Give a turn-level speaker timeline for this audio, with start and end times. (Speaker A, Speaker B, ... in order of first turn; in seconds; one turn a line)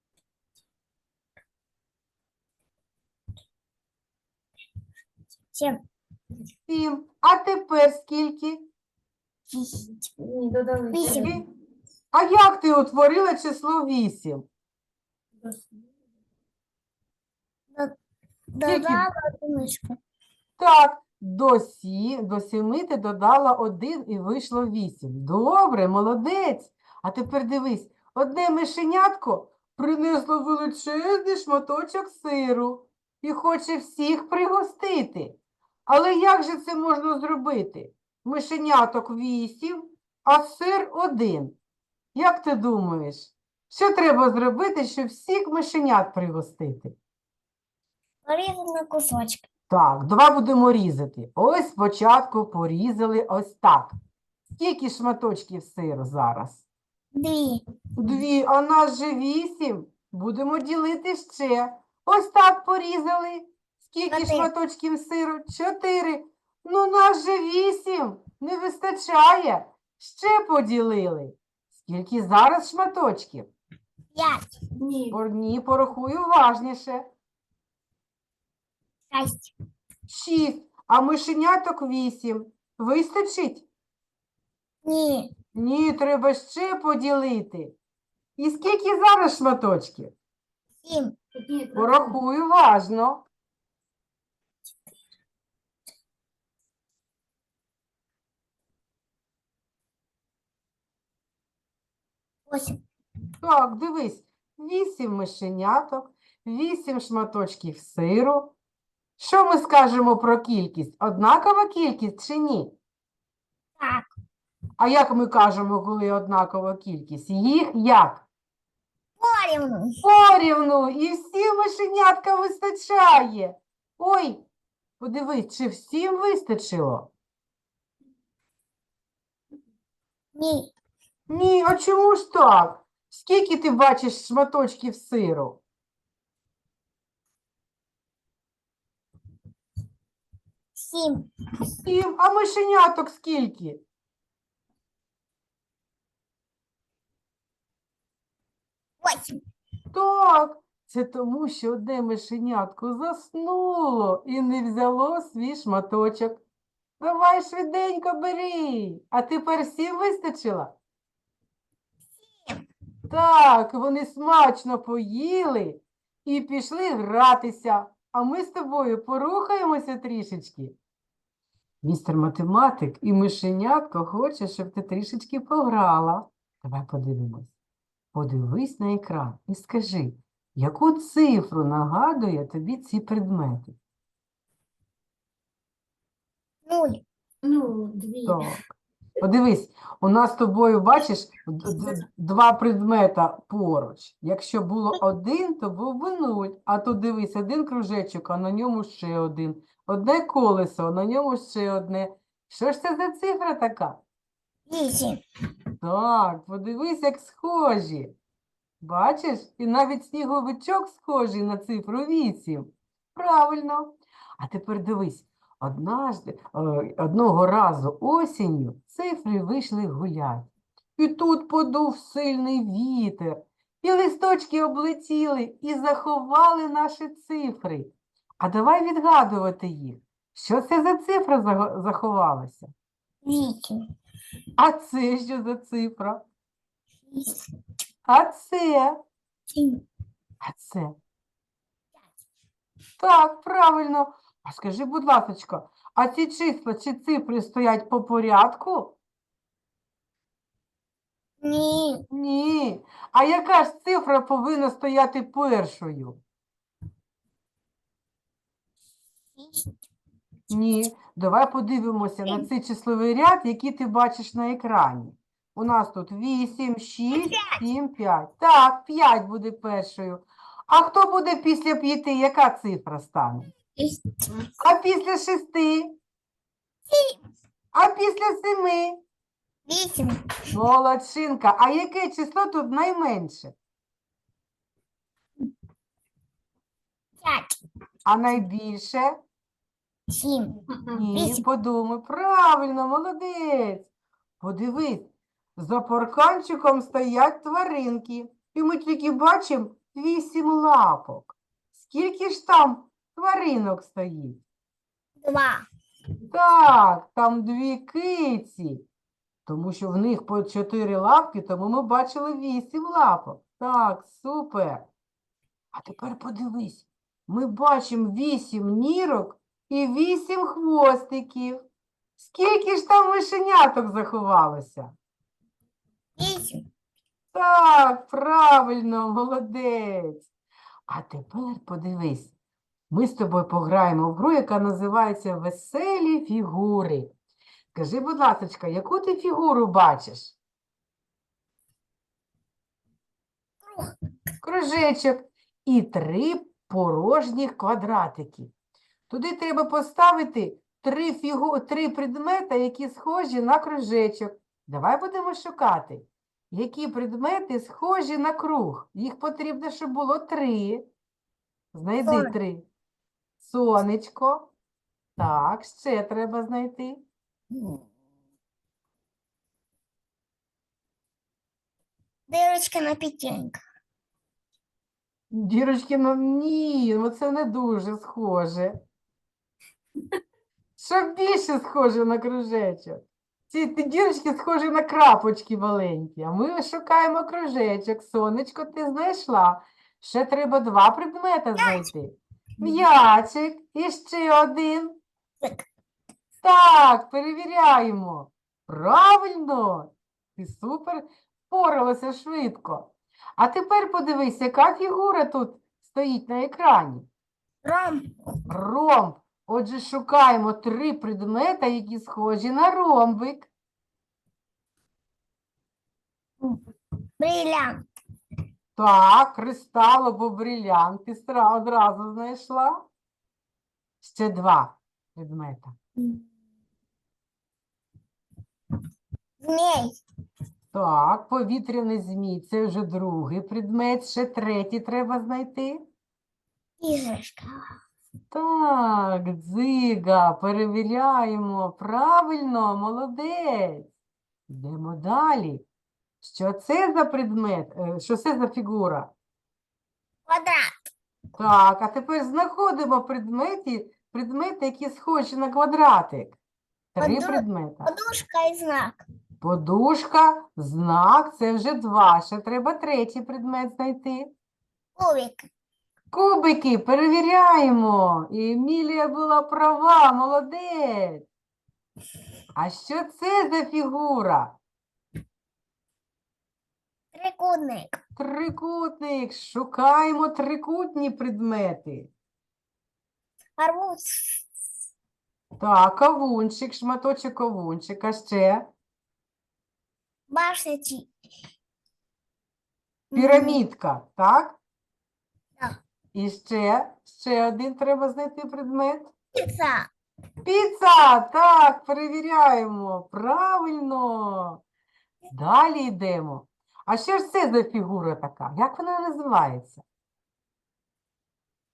Speaker A: 5.5-5.8
Speaker B: 6.7-8.7
Speaker A: 9.5-10.1
Speaker C: 10.2-11.3
Speaker A: 10.9-11.4
Speaker B: 11.1-11.4
Speaker B: 12.1-14.4
Speaker C: 15.4-15.8
Speaker A: 18.5-20.0
Speaker B: 18.6-19.1
Speaker B: 20.6-41.5
Speaker B: 42.1-46.9
Speaker A: 48.2-49.5
Speaker B: 49.7-54.0
Speaker B: 54.5-56.7
Speaker A: 57.1-57.6
Speaker B: 58.0-73.5
Speaker A: 64.1-64.5
Speaker A: 74.1-74.5
Speaker C: 74.8-75.2
Speaker B: 75.1-77.1
Speaker A: 79.1-79.5
Speaker B: 80.1-83.7
Speaker A: 84.8-85.3
Speaker B: 85.5-87.8
Speaker B: 88.4-90.1
Speaker A: 90.8-91.2
Speaker C: 91.3-92.1
Speaker B: 91.7-93.2
Speaker A: 102.5-102.8
Speaker B: 103.4-108.5
Speaker B: 109.2-112.7
Speaker A: 113.8-114.1
Speaker B: 114.8-118.2
Speaker A: 119.2-120.0
Speaker B: 120.0-124.4
Speaker B: 125.0-127.1
Speaker A: 130.3-130.7
Speaker B: 131.3-135.6
Speaker A: 140.8-141.3
Speaker B: 141.7-143.8
Speaker A: 149.0-149.4
Speaker B: 149.9-156.4
Speaker B: 157.0-160.7
Speaker A: 162.3-162.7
Speaker B: 163.1-170.8
Speaker B: 171.8-177.5
Speaker B: 178.1-183.8
Speaker A: 186.7-187.0
Speaker C: 187.4-188.5
Speaker B: 188.2-188.7
Speaker B: 189.2-204.0
Speaker A: 204.7-205.2
Speaker B: 205.8-208.1
Speaker B: 208.8-232.7
Speaker A: 233.2-233.8
Speaker B: 234.6-236.2
Speaker A: 237.1-237.4
Speaker B: 238.1-239.0
Speaker A: 239.5-239.8
Speaker B: 240.4-240.9
Speaker B: 243.0-249.0
Speaker A: 251.4-252.0
Speaker B: 252.1-256.2
Speaker A: 259.4-259.8
Speaker B: 260.5-273.5
Speaker A: 267.1-267.6
Speaker A: 273.7-274.3
Speaker B: 274.6-275.9
Speaker A: 276.9-277.2
Speaker B: 277.7-279.0
Speaker A: 279.7-280.2
Speaker B: 280.5-283.5
Speaker A: 287.2-287.6
Speaker B: 288.1-289.2
Speaker A: 290.1-290.6
Speaker B: 290.9-293.9
Speaker A: 291.1-291.4
Speaker B: 294.4-304.4
Speaker A: 305.2-305.6
Speaker B: 306.3-308.8
Speaker B: 309.4-314.9
Speaker B: 315.7-321.6
Speaker B: 322.2-324.9
Speaker A: 326.2-326.6
Speaker B: 327.3-330.3
Speaker B: 330.9-332.3
Speaker B: 332.9-337.1
Speaker B: 337.7-340.4
Speaker A: 343.6-343.9
Speaker B: 344.4-348.5
Speaker B: 349.1-360.8
Speaker B: 361.7-362.6
Speaker A: 362.0-362.3
Speaker B: 363.4-364.5
Speaker B: 365.2-367.0
Speaker A: 367.5-367.8
Speaker A: 372.3-373.6
Speaker B: 375.3-378.8
Speaker B: 380.8-394.9
Speaker B: 396.4-407.1
Speaker A: 407.6-408.1
Speaker B: 408.5-413.5
Speaker A: 417.2-417.9
Speaker B: 418.8-422.9
Speaker B: 424.0-425.7
Speaker A: 426.0-426.2
Speaker A: 429.4-430.0
Speaker B: 430.7-435.8
Speaker A: 436.8-437.6
Speaker B: 438.3-443.9
Speaker B: 444.5-445.6
Speaker B: 446.2-449.1
Speaker A: 450.3-450.7
Speaker B: 451.3-456.4
Speaker B: 456.9-457.9
Speaker A: 457.0-459.0
Speaker B: 459.4-464.3
Speaker A: 465.0-465.5
Speaker B: 466.1-471.2
Speaker B: 472.6-474.6
Speaker A: 477.1-478.0
Speaker B: 478.2-482.1
Speaker A: 483.6-484.4
Speaker B: 485.6-488.7
Speaker A: 490.3-491.1
Speaker A: 493.1-493.6
Speaker B: 493.1-494.6
Speaker B: 496.1-499.1
Speaker A: 499.4-499.9
Speaker B: 500.4-504.6
Speaker B: 505.3-509.8